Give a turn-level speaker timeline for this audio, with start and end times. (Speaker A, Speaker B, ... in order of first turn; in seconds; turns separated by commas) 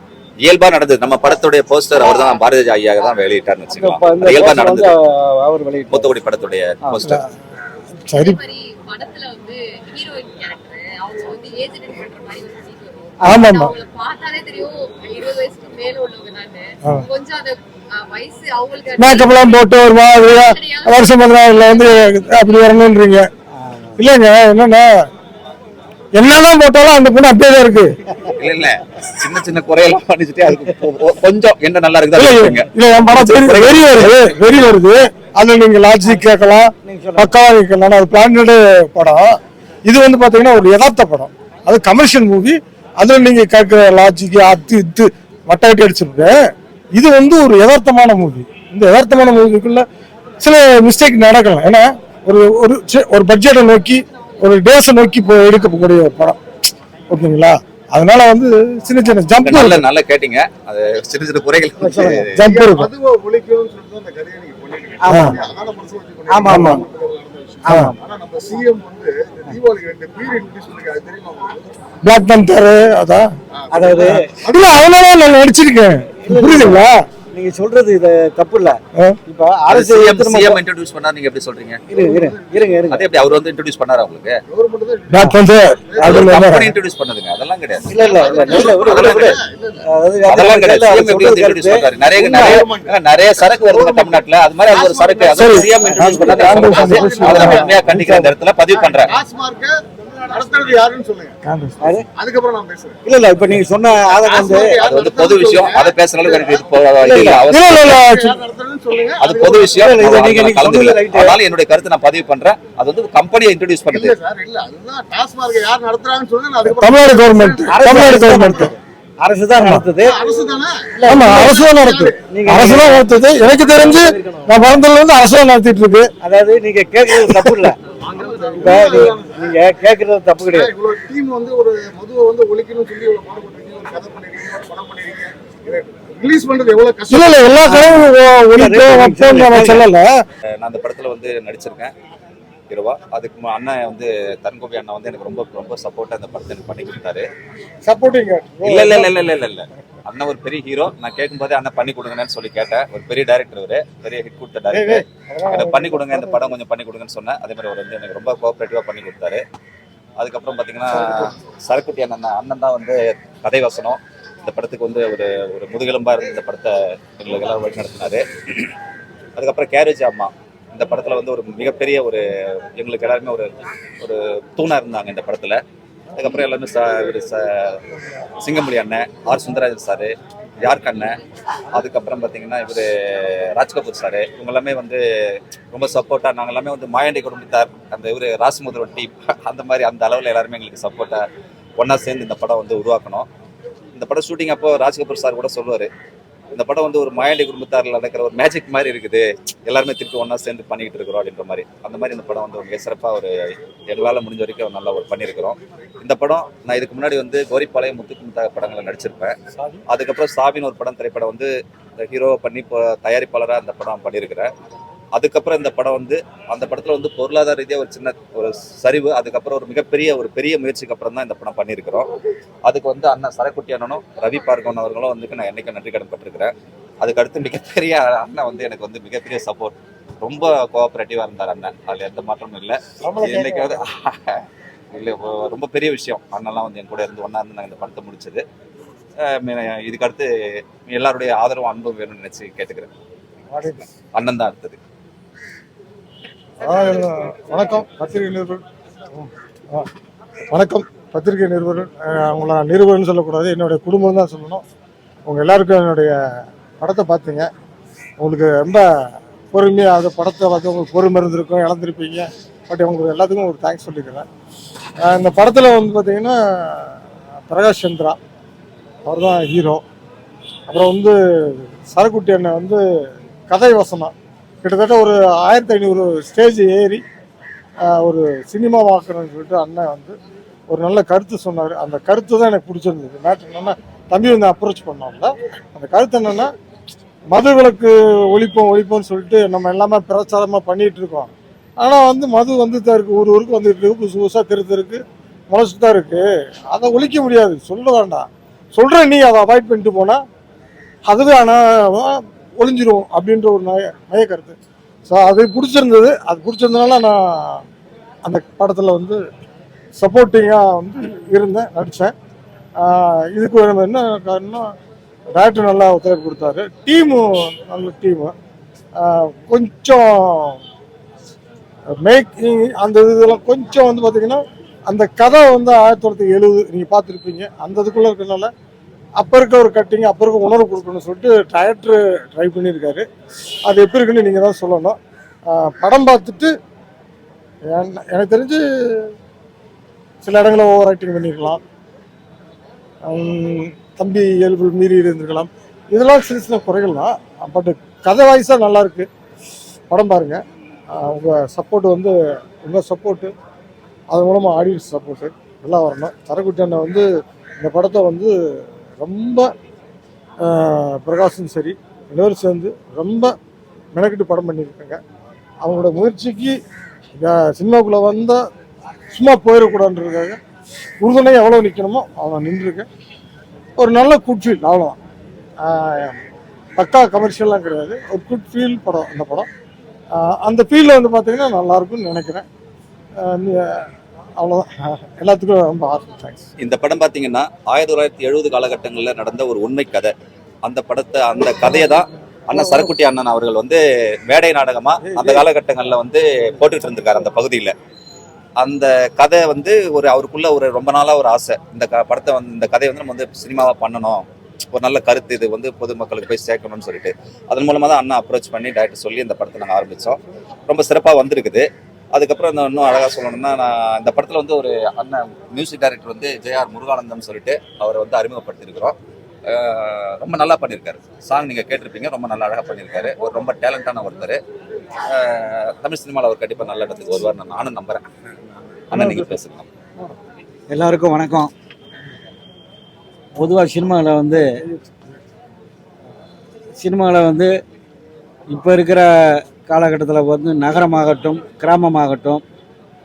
Speaker A: 0.4-4.9, Speaker B: 3.7-6.1, Speaker A: 5.9-7.2, Speaker C: 8.1-8.4, Speaker D: 8.1-22.8, Speaker C: 13.2-13.8, Speaker C: 19.0-23.3, Speaker B: 23.6-24.0, Speaker C: 24.0-24.9, Speaker C: 26.1-28.0, Speaker A: 28.4-34.2, Speaker C: 32.2-46.4, Speaker B: 36.8-37.3, Speaker C: 47.0-49.9, Speaker C: 50.4-56.4, Speaker C: 57.1-59.8, Speaker A: 59.4-62.5, Speaker B: 61.8-62.3, Speaker C: 62.3-62.9, Speaker E: 62.3-71.7, Speaker B: 65.0-65.4, Speaker C: 65.1-65.4, Speaker B: 66.3-66.8, Speaker C: 66.5-66.8, Speaker B: 67.6-68.0, Speaker C: 72.0-73.3, Speaker E: 73.5-74.7, Speaker B: 73.7-74.3, Speaker C: 74.0-77.1, Speaker B: 76.2-80.6, Speaker A: 79.7-81.8, Speaker B: 81.9-83.0, Speaker E: 82.0-82.9, Speaker A: 82.9-84.4, Speaker E: 84.5-86.4, Speaker C: 85.1-86.8, Speaker A: 86.0-89.4, Speaker E: 87.9-89.8, Speaker B: 87.9-92.6, Speaker A: 90.3-99.2, Speaker E: 92.0-97.9, Speaker C: 95.3-98.3, Speaker B: 96.0-97.5, Speaker E: 98.7-101.4, Speaker C: 101.4-101.8, Speaker B: 101.8-102.1, Speaker E: 102.2-103.0, Speaker B: 103.1-104.8, Speaker E: 104.0-106.7, Speaker A: 104.8-108.0, Speaker B: 107.0-107.4, Speaker C: 107.5-108.4, Speaker E: 107.5-110.2, Speaker A: 109.2-114.2, Speaker B: 109.8-111.4, Speaker E: 113.9-118.7, Speaker C: 116.6-118.7, Speaker B: 117.7-120.2, Speaker C: 119.6-119.8, Speaker E: 120.0-122.2, Speaker B: 121.0-121.6, Speaker C: 121.1-126.1, Speaker B: 122.3-123.1, Speaker B: 123.8-124.5, Speaker B: 126.2-127.8, Speaker C: 127.1-127.7, Speaker E: 128.1-129.6, Speaker B: 128.6-130.7, Speaker E: 130.5-137.7, Speaker C: 137.1-140.1, Speaker B: 137.6-139.8, Speaker A: 140.6-141.9, Speaker A: 142.7-147.3, Speaker C: 147.8-149.1, Speaker A: 148.6-159.4, Speaker C: 154.7-156.4, Speaker A: 160.2-168.7, Speaker C: 161.0-161.3, Speaker A: 169.3-175.6, Speaker A: 176.1-177.8, Speaker A: 178.4-181.2, Speaker A: 181.7-191.2, Speaker A: 191.8-193.3, Speaker A: 193.9-195.9, Speaker A: 196.5-214.5, Speaker C: 209.6-209.8, Speaker A: 215.1-222.1, Speaker A: 222.6-238.4, Speaker C: 233.0-233.8, Speaker A: 239.2-240.3, Speaker A: 240.8-242.9, Speaker C: 243.5-243.9, Speaker A: 244.1-244.8, Speaker C: 246.6-249.9, Speaker C: 250.5-254.6, Speaker C: 255.2-256.2, Speaker C: 256.8-257.5, Speaker C: 258.2-258.9, Speaker C: 259.5-264.3, Speaker C: 265.0-268.2, Speaker C: 269.1-269.8, Speaker C: 270.7-272.8, Speaker C: 273.5-277.0, Speaker C: 277.8-280.2, Speaker C: 280.7-286.5, Speaker C: 287.3-300.2, Speaker C: 301.1-304.6, Speaker C: 305.1-307.6, Speaker C: 308.2-309.2, Speaker C: 310.0-312.1, Speaker C: 312.8-314.7, Speaker C: 315.3-318.4, Speaker C: 319.0-320.6, Speaker C: 322.0-328.5, Speaker C: 329.2-333.1, Speaker C: 333.7-335.0, Speaker C: 335.5-336.5, Speaker C: 337.7-339.1, Speaker C: 340.2-341.6, Speaker C: 343.1-349.1, Speaker C: 349.9-353.3, Speaker C: 354.1-357.1, Speaker C: 357.6-358.4, Speaker C: 359.0-359.5, Speaker C: 360.4-363.4, Speaker C: 363.9-365.0, Speaker C: 365.6-366.6, Speaker C: 367.2-368.4, Speaker C: 369.1-370.4, Speaker C: 371.0-372.9, Speaker C: 373.8-375.0, Speaker C: 375.6-376.2, Speaker C: 376.8-379.5, Speaker C: 380.1-382.5, Speaker C: 383.2-386.5, Speaker A: 386.6-397.8, Speaker C: 392.5-392.9, Speaker C: 395.0-395.4, Speaker A: 398.6-424.4, Speaker A: 425.1-428.0, Speaker A: 428.9-429.7, Speaker C: 428.9-429.3, Speaker B: 430.7-431.5, Speaker B: 433.4-434.6, Speaker C: 434.4-435.0, Speaker B: 436.8-437.5, Speaker B: 438.5-442.4